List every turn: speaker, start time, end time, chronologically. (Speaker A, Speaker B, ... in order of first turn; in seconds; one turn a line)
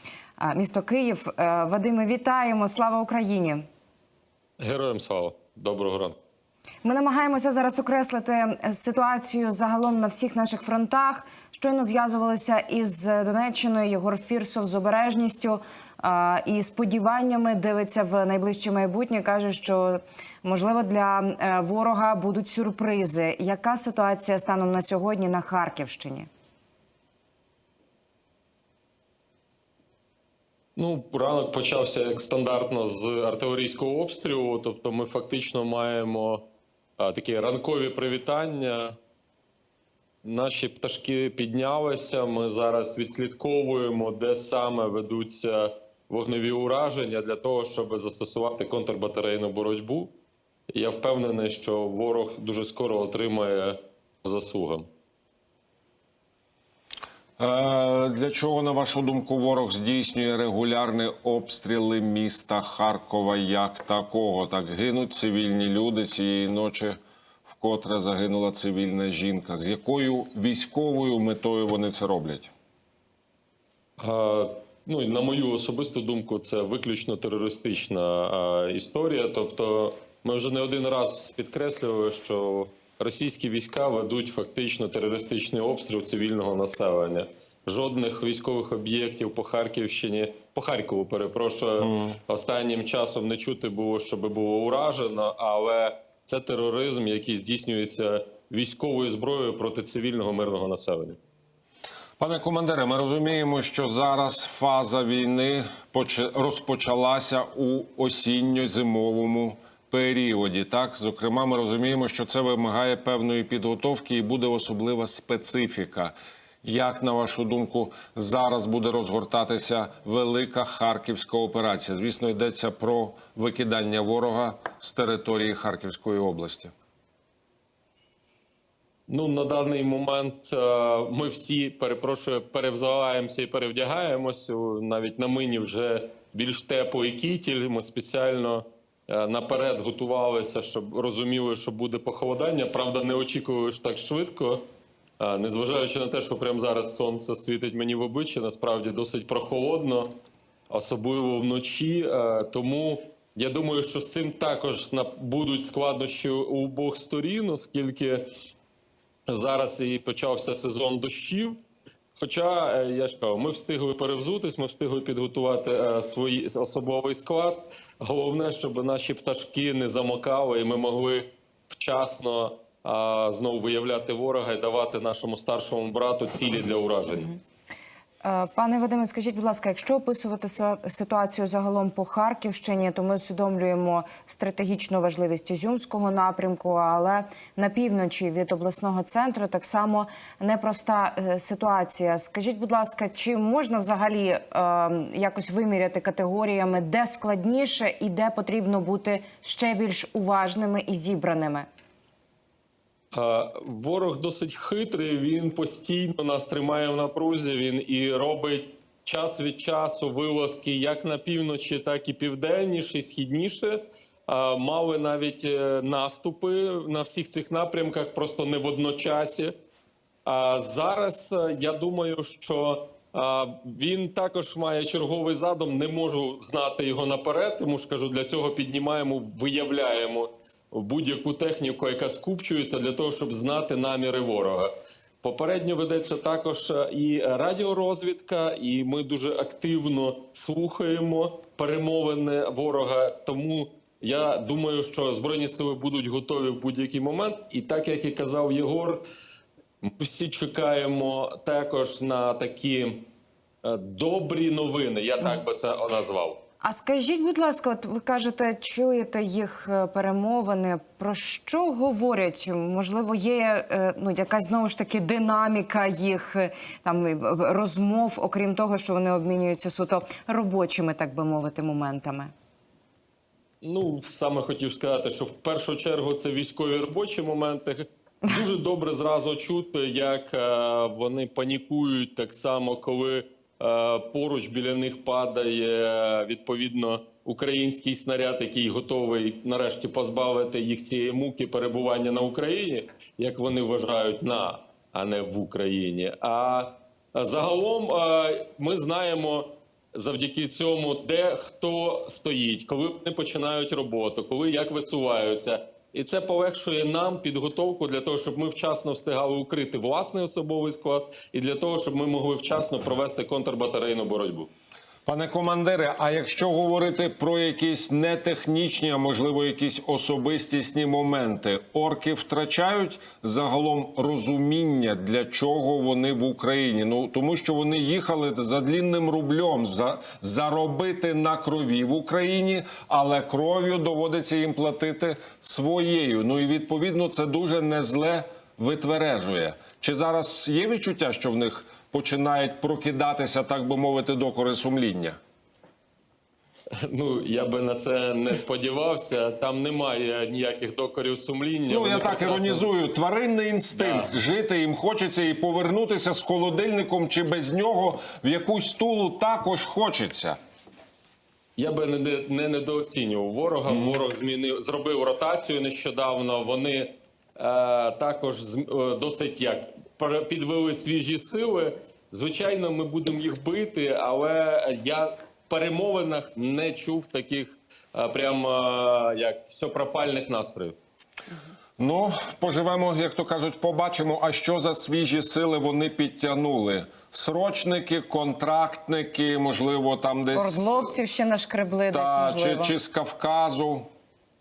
Speaker A: 0.4-3.6
Speaker B: 4.6-6.2
Speaker A: 6.8-26.3
Speaker B: 30.8-36.5
Speaker B: 37.0-39.0
Speaker B: 40.2-50.1
Speaker B: 50.7-54.9
Speaker C: 57.4-67.0
Speaker C: 67.5-72.5
Speaker B: 74.0-101.2
Speaker C: 91.8-92.2
Speaker C: 102.2-126.7
Speaker B: 129.1-144.7
Speaker B: 145.2-150.2
Speaker B: 150.7-158.3
Speaker B: 159.3-161.6
Speaker B: 162.2-177.3
Speaker A: 178.2-201.7
Speaker B: 203.1-219.5
Speaker B: 220.3-234.7
Speaker B: 235.2-249.0
Speaker B: 249.8-253.1
Speaker B: 253.6-256.4
Speaker A: 256.6-272.3
Speaker B: 273.6-314.5
Speaker C: 315.1-345.2
Speaker B: 346.9-352.7
Speaker C: 351.7-360.4
Speaker B: 353.7-354.1
Speaker B: 361.6-380.8
Speaker C: 363.7-364.0
Speaker C: 381.8-390.9
Speaker A: 390.3-392.8
Speaker C: 391.9-393.9